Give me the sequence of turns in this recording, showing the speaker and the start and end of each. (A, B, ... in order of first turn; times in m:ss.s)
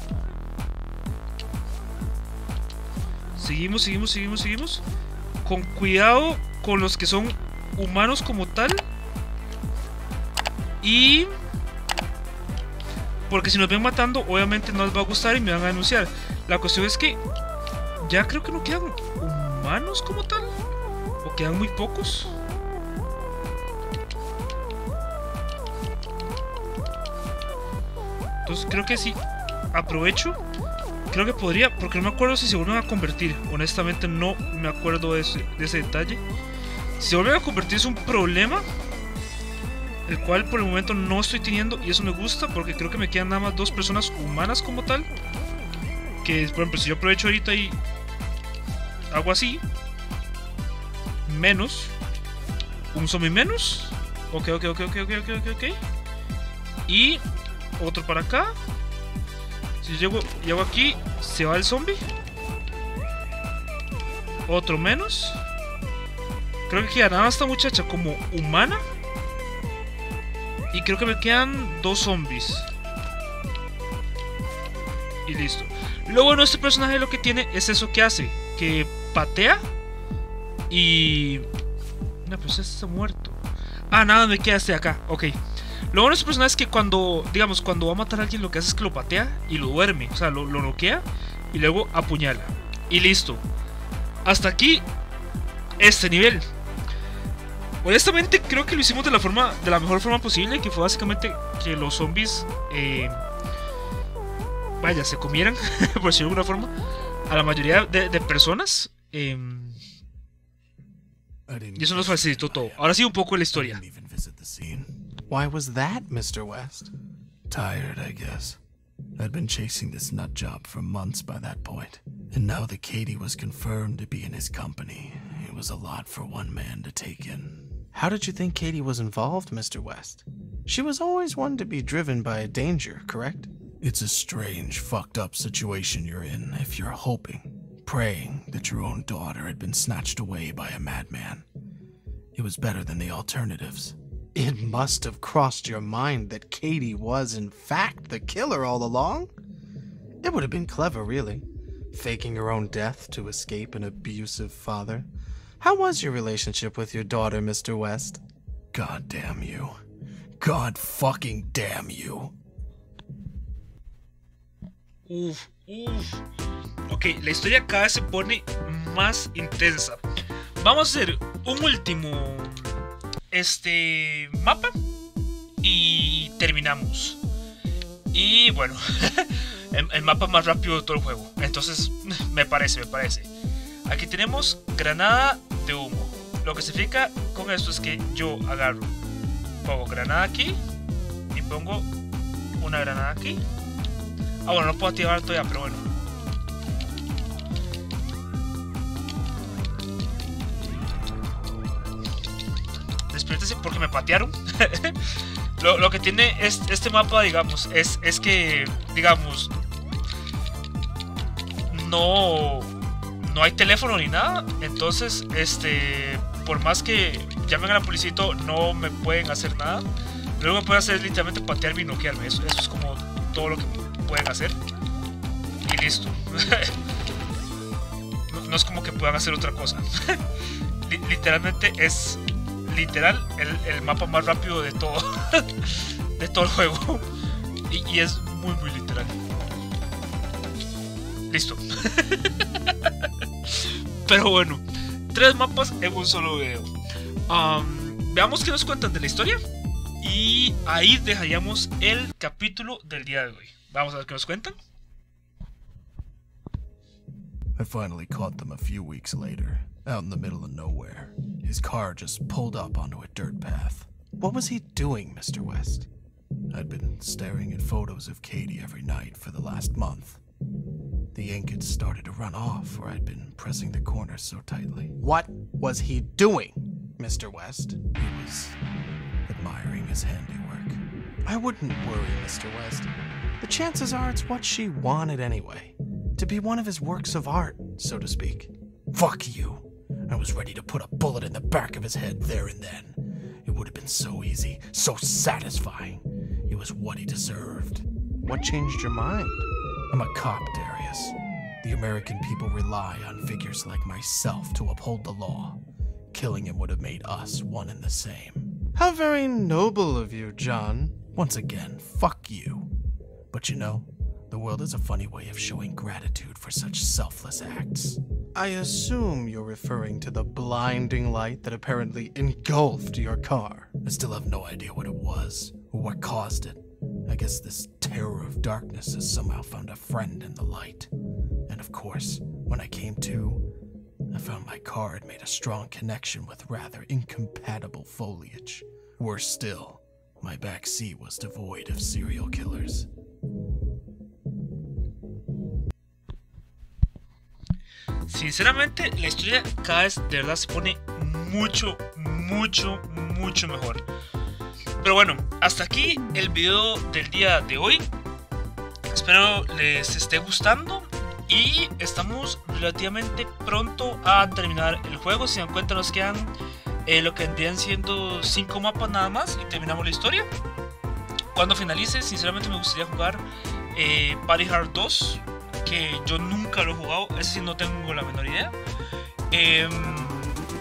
0:03.4-0:04.8 A
0:05.4-0:08.8 A
0:10.8-0:11.3 A
0:13.3-0:17.2 A
0:18.0-0:20.5 A
0:21.2-0:22.3 A
0:28.5-0:29.2 A
0:29.7-0:30.4 A
0:31.1-0:36.2 A
0:37.0-0:38.6 A
0:40.1-0:45.1 A
0:46.2-0:47.8 A
0:49.1-0:49.6 A
0:51.2-0:51.9 A
0:52.9-0:55.8 A
0:56.9-0:57.2 A
0:57.8-0:58.5 A
0:59.8-1:02.0 A
1:04.5-1:05.4 A
1:06.7-1:08.8 A
1:10.7-1:12.7 A
1:15.2-1:19.7 A
1:20.7-1:21.5 A
1:22.2-1:25.4 A
1:25.9-1:33.4 A
1:34.2-1:34.8 A
1:35.8-1:36.4 A
1:37.8-1:43.2 A
1:44.8-1:46.7 A
1:47.3-1:49.8 A
1:51.5-1:53.0 B
1:51.8-1:53.8 A
1:53.5-1:54.9 B
1:55.3-1:56.9 C
1:57.5-1:58.6 B
1:59.2-2:07.7 B
2:07.9-2:13.5 C
2:13.8-2:21.4 B
2:22.3-2:24.0 B
2:24.3-2:29.3 C
2:30.2-2:35.1 C
2:35.6-2:38.2 C
2:38.7-2:39.8 B
2:40.4-2:42.3 B
2:45.0-2:46.2 A
2:46.9-2:50.0 A
2:50.6-2:54.7 A
2:55.6-2:57.2 A
2:58.1-3:03.3 A
3:03.8-3:08.9 A
3:09.6-3:10.6 A
3:11.3-3:11.9 A
3:12.6-3:13.4 A
3:14.4-3:15.8 A
3:23.1-3:29.5 A
3:31.7-3:39.8 A
3:40.4-3:44.6 A
3:45.6-3:46.7 A
3:48.3-3:50.2 A
3:50.8-3:57.1 A
3:57.7-3:59.2 A
4:01.3-4:02.9 A
4:03.5-4:06.7 A
4:07.3-4:09.4 A
4:10.0-4:14.6 A
4:17.6-4:23.9 B
4:24.2-4:25.9 C
4:26.5-4:30.2 B
4:31.1-4:35.0 B
4:35.0-4:37.9 C
4:37.9-4:38.6 B
4:39.3-4:40.8 B
4:41.2-4:42.9 C
4:43.4-4:48.5 C
4:48.9-4:57.8 B
4:58.2-4:59.5 C
4:59.9-5:05.6 B
5:06.1-5:08.5 B
5:08.8-5:11.1 C
5:11.1-5:12.7 B
5:13.3-5:18.0 B
5:18.3-5:23.8 C
5:23.8-5:30.9 B
5:31.5-5:33.5 B
5:34.1-5:42.9 B
5:48.1-5:53.8 A
5:54.8-5:57.9 A
5:58.9-6:06.3 A
6:06.8-6:10.3 A
6:11.3-6:18.5 A
6:19.3-6:20.4 A